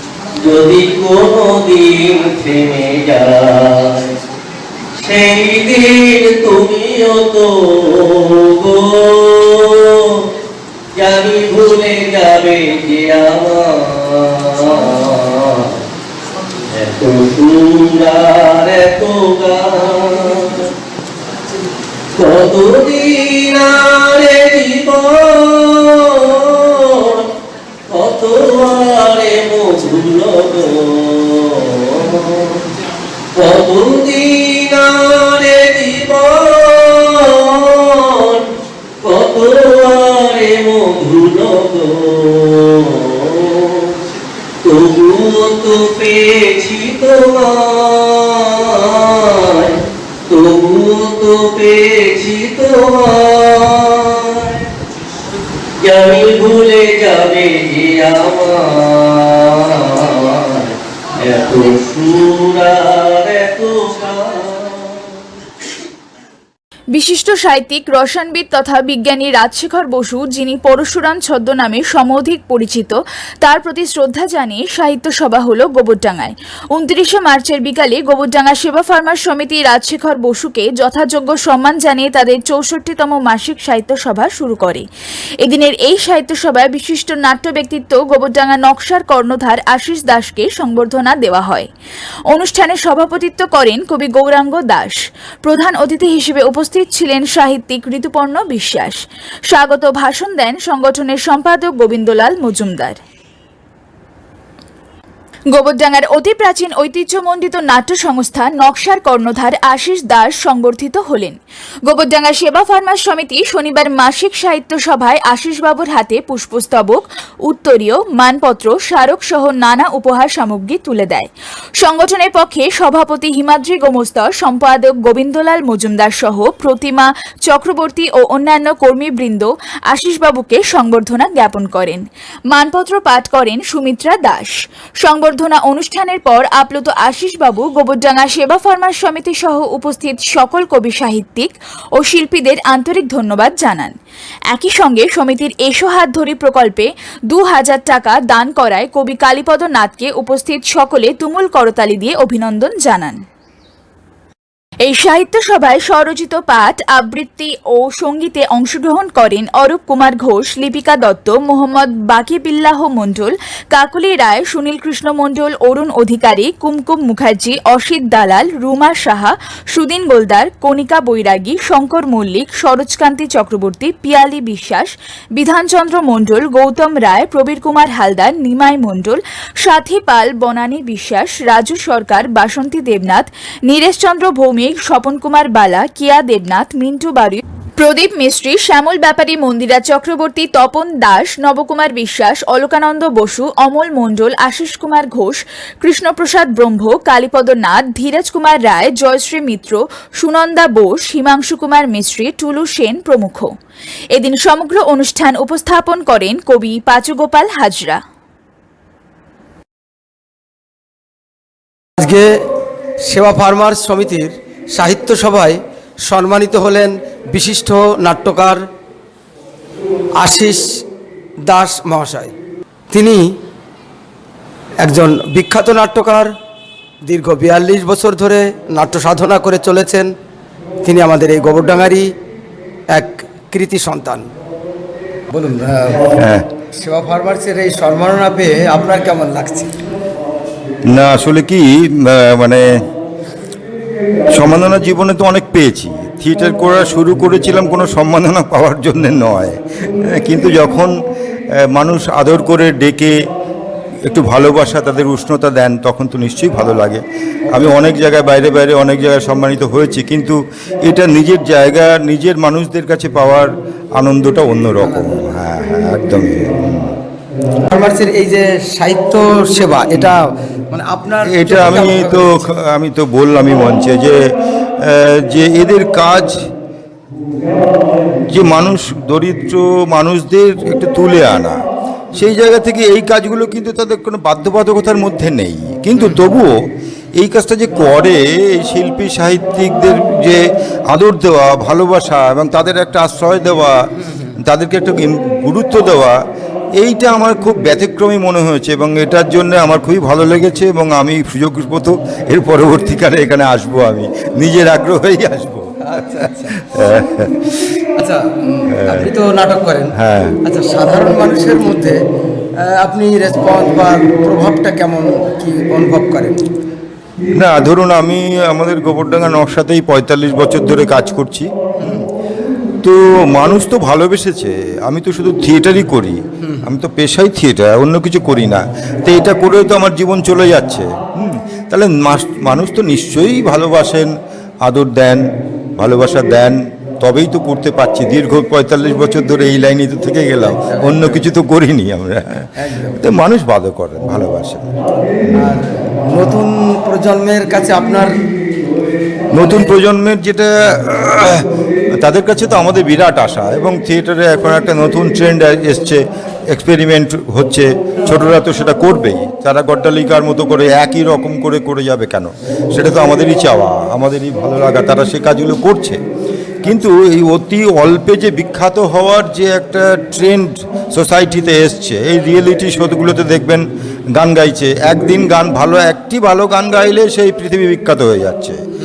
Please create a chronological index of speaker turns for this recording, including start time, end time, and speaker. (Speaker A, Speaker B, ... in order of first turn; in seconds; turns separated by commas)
Speaker A: 0.3-4.1, Speaker A: 5.0-10.2, Speaker A: 10.9-15.8, Speaker A: 16.7-20.7, Speaker A: 22.1-27.3, Speaker A: 27.9-32.6, Speaker A: 33.3-38.5, Speaker A: 39.0-44.0, Speaker A: 44.6-54.6, Speaker A: 55.8-65.1, Speaker B: 66.9-84.8, Speaker B: 85.4-91.7, Speaker B: 92.3-103.0, Speaker B: 105.5-143.9, Speaker B: 144.5-153.2, Speaker B: 154.8-203.5, Speaker B: 204.1-208.0, Speaker C: 212.0-212.3, Speaker C: 213.0-218.6, Speaker C: 220.2-220.8, Speaker C: 221.5-222.3, Speaker C: 222.9-223.3, Speaker C: 224.8-226.3, Speaker C: 227.0-230.1, Speaker C: 230.8-232.1, Speaker C: 232.9-234.3, Speaker C: 235.3-236.1, Speaker D: 236.2-236.4, Speaker C: 236.7-239.7, Speaker D: 240.9-242.6, Speaker D: 244.3-250.9, Speaker D: 251.6-253.1, Speaker D: 254.1-266.9, Speaker C: 264.8-265.1, Speaker C: 267.7-272.5, Speaker D: 271.3-274.2, Speaker D: 274.8-276.3, Speaker D: 278.3-281.6, Speaker D: 282.1-286.5, Speaker C: 286.0-286.2, Speaker D: 287.2-293.8, Speaker D: 294.4-296.2, Speaker D: 296.8-305.8, Speaker C: 305.9-306.5, Speaker D: 306.5-307.4, Speaker C: 307.9-312.0, Speaker D: 308.7-309.1, Speaker D: 309.9-310.4, Speaker C: 312.6-316.4, Speaker D: 317.3-321.5, Speaker D: 322.8-334.1, Speaker D: 334.6-335.2, Speaker D: 335.8-344.6, Speaker C: 340.4-341.3, Speaker C: 342.6-343.0, Speaker C: 345.4-348.1, Speaker D: 349.3-351.4, Speaker C: 349.4-349.7, Speaker D: 352.0-366.0, Speaker D: 366.6-373.6, Speaker D: 374.2-378.6